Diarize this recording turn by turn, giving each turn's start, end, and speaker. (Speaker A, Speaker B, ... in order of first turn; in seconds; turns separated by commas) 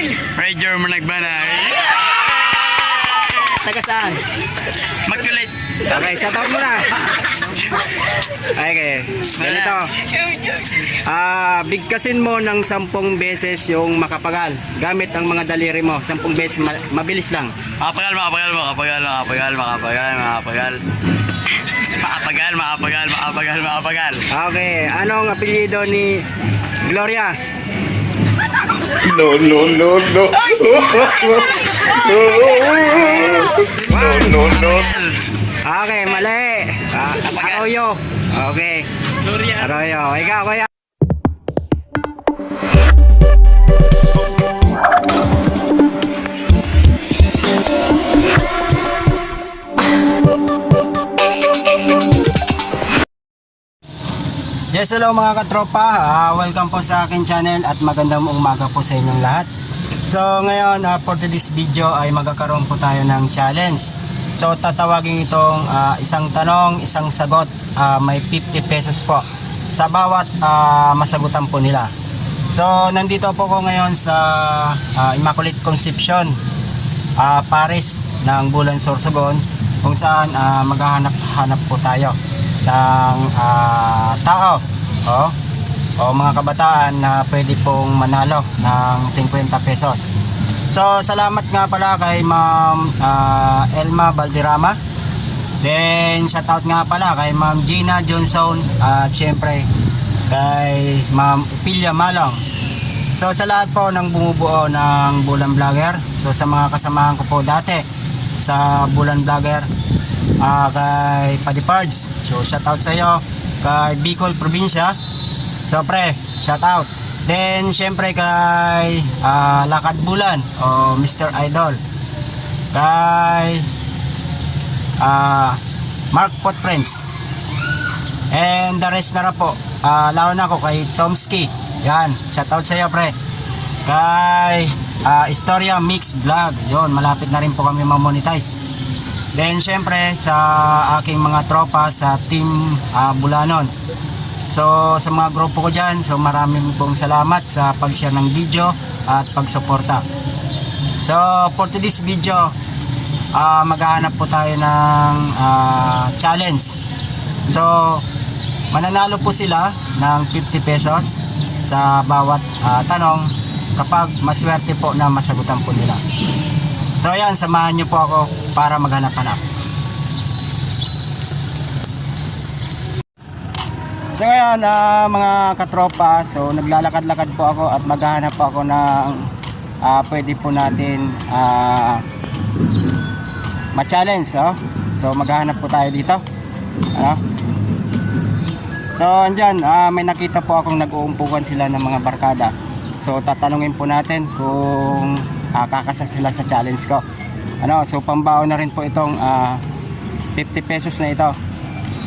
Speaker A: 0.2-3.5, Speaker B: 3.4-4.2, Speaker A: 5.0-5.5, Speaker B: 5.9-7.0, Speaker B: 8.5-9.9, Speaker A: 9.4-10.6, Speaker B: 11.0-17.5, Speaker A: 17.8-20.8, Speaker A: 21.8-24.2, Speaker B: 24.3-26.2, Speaker B: 26.8-27.5, Speaker C: 29.0-34.9, Speaker A: 32.9-33.5, Speaker B: 33.8-34.4, Speaker A: 34.3-35.2, Speaker B: 35.6-38.9, Speaker A: 37.2-37.7, Speaker B: 39.5-40.7, Speaker B: 54.7-59.5, Speaker B: 60.0-71.9, Speaker B: 72.5-76.4, Speaker B: 77.2-85.3, Speaker B: 86.0-90.1, Speaker B: 90.7-94.8, Speaker B: 95.6-99.7, Speaker B: 100.3-102.4, Speaker B: 103.2-107.9, Speaker B: 108.4-109.7, Speaker B: 110.4-115.0, Speaker B: 115.7-121.8, Speaker B: 122.7-123.7, Speaker B: 125.0-125.6, Speaker B: 126.1-127.0, Speaker B: 128.3-133.2, Speaker B: 133.8-138.6, Speaker B: 139.3-143.7, Speaker B: 144.5-150.1, Speaker B: 151.0-152.6, Speaker B: 153.3-156.8, Speaker B: 157.5-158.1, Speaker B: 158.7-166.0, Speaker B: 167.0-169.4, Speaker B: 174.2-179.3, Speaker B: 179.8-182.1, Speaker B: 183.7-186.2, Speaker B: 186.9-187.2, Speaker B: 188.9-197.0, Speaker B: 197.6-199.6, Speaker B: 200.3-201.4